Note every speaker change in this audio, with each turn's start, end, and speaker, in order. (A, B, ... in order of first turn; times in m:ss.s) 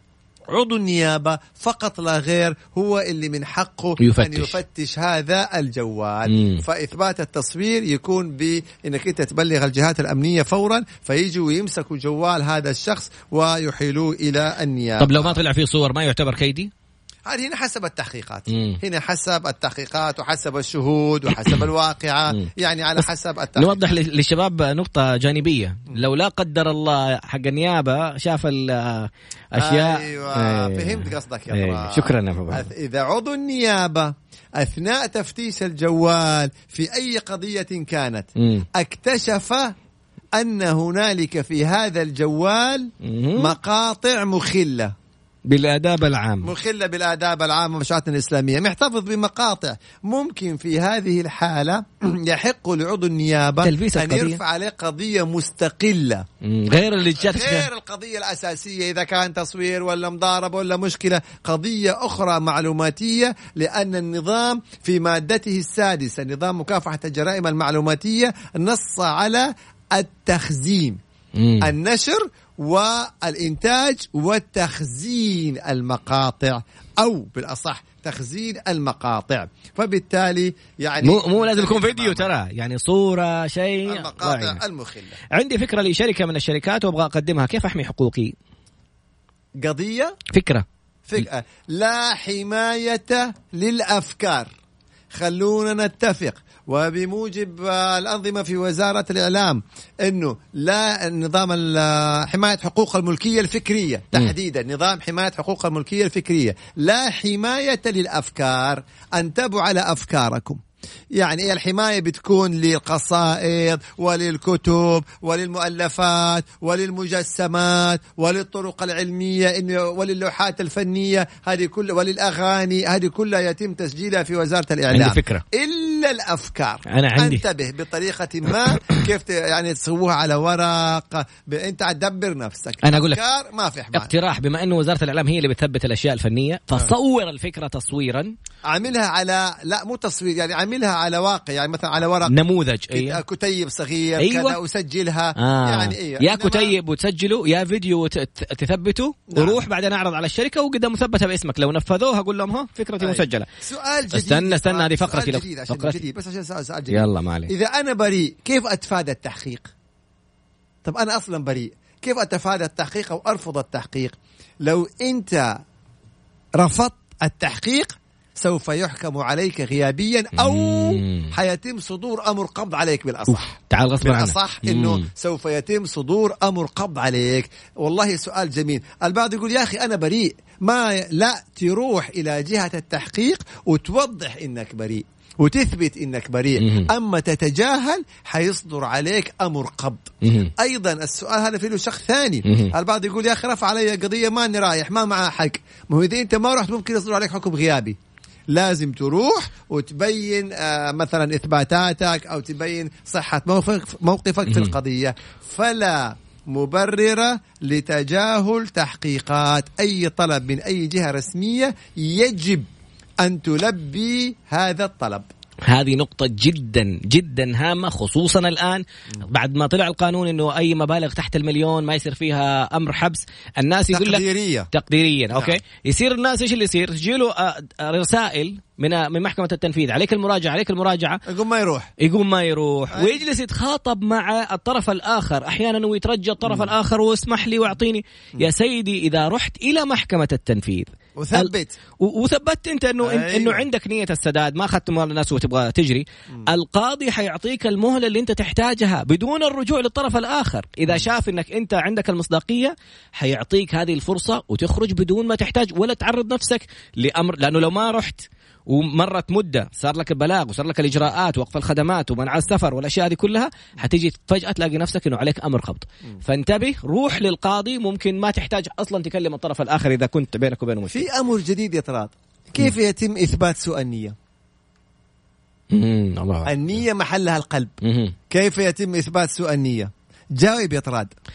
0:00.5-0:15.4 A
0:04.0-0:04.6 B
0:06.3-0:06.6 B
0:15.0-0:16.7 B
0:17.3-0:23.8 A
0:18.5-0:18.8 B
0:22.3-0:23.0 B
0:23.6-0:32.7 B
0:29.6-0:39.7 A
0:38.4-0:38.6 B
0:40.4-0:44.9 A
0:43.0-0:43.5 B
0:45.5-0:46.5 B
0:46.4-0:56.2 A
0:53.6-0:54.4 B
0:56.4-0:57.7 B
0:57.2-1:11.0 A
1:11.4-1:11.7 B
1:11.6-1:22.3 A
1:21.0-1:24.6 B
1:23.9-1:25.2 A
1:25.3-1:28.3 B
1:29.6-1:30.2 A
1:30.3-1:30.6 B
1:31.1-1:34.5 A
1:35.1-1:50.6 A
1:51.1-2:14.1 A
2:04.9-2:05.4 B
2:06.9-2:07.4 B
2:12.8-2:13.2 B
2:13.9-2:18.3 B
2:18.7-2:22.4 A
2:22.3-2:23.2 B
2:22.9-2:26.8 A
2:24.2-2:24.6 B
2:25.4-2:33.5 B
2:29.3-2:29.6 A
2:33.0-2:39.7 A
2:34.1-2:36.0 B
2:36.9-2:37.5 B
2:40.8-2:45.6 A
2:46.6-3:18.0 A
2:50.4-2:51.3 B
2:53.3-2:55.0 B
3:06.6-3:06.9 B
3:10.2-3:10.5 B
3:12.4-3:12.7 B
3:18.5-3:32.7 A
3:24.5-3:24.8 B
3:33.2-3:35.2 A
3:35.7-3:51.2 B
3:43.9-3:44.7 A
3:45.3-3:45.6 A
3:51.3-3:51.9 A
3:52.0-4:31.1 B
3:52.9-3:53.2 A
4:01.2-4:01.7 A
4:03.0-4:03.6 A
4:30.9-4:34.1 A
4:35.7-4:36.8 B
4:36.4-4:37.8 A
4:37.8-4:38.1 B
4:38.3-4:41.1 A